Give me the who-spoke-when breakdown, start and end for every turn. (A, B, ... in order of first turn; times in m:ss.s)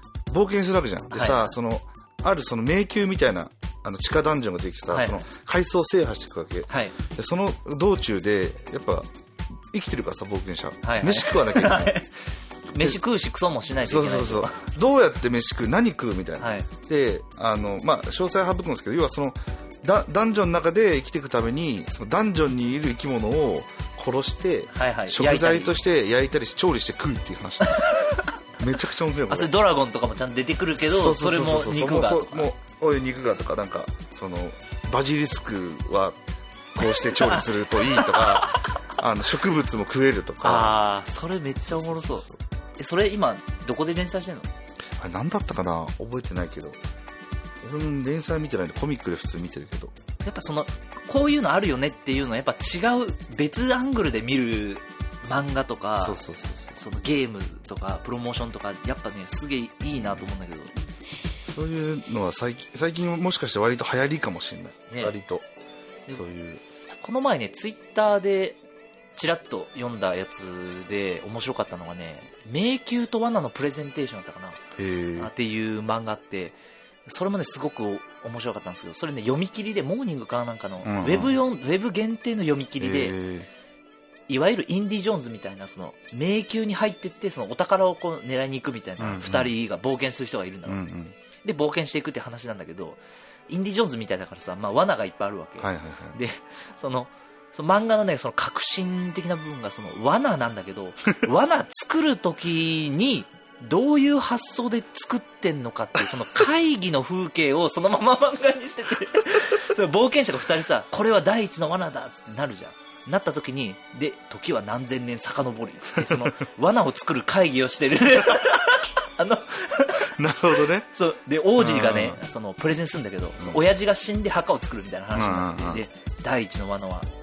0:00.3-0:09.1 A
0:01.1-0:01.5 B
0:04.9-0:05.2 B
0:06.7-0:06.9 B
0:09.6-0:12.0 A
0:10.8-0:12.1 B
0:12.7-0:14.7 B
0:13.8-0:27.9 A
0:16.4-0:16.7 B
0:24.7-0:25.7 B
0:27.7-0:28.3 B
0:28.6-0:29.5 A
0:29.3-0:32.5 B
0:30.8-0:36.2 A
0:36.7-0:40.8 A
0:36.8-0:38.9 B
0:40.4-0:42.2 B
0:41.6-0:42.4 A
0:42.8-0:44.5 B
0:45.0-0:46.8 A
0:47.6-0:50.0 A
0:50.2-0:56.2 B
0:56.0-0:56.8 A
0:56.7-1:00.7 B
0:59.9-1:00.3 A
1:01.5-1:05.4 A
1:04.9-1:05.1 B
1:06.1-1:06.6 A
1:07.0-1:08.6 B
1:09.2-1:14.6 B
1:14.8-1:15.3 A
1:15.2-1:23.2 B
1:20.8-1:21.4 A
1:22.8-1:23.5 A
1:24.3-1:30.8 B
1:29.0-1:29.5 A
1:30.6-1:31.2 A
1:31.4-2:00.1 B
1:35.6-1:36.2 A
1:56.0-1:56.3 A
2:00.0-2:00.9 A
2:00.9-2:07.1 B
2:01.6-2:02.2 A
2:05.1-2:05.8 A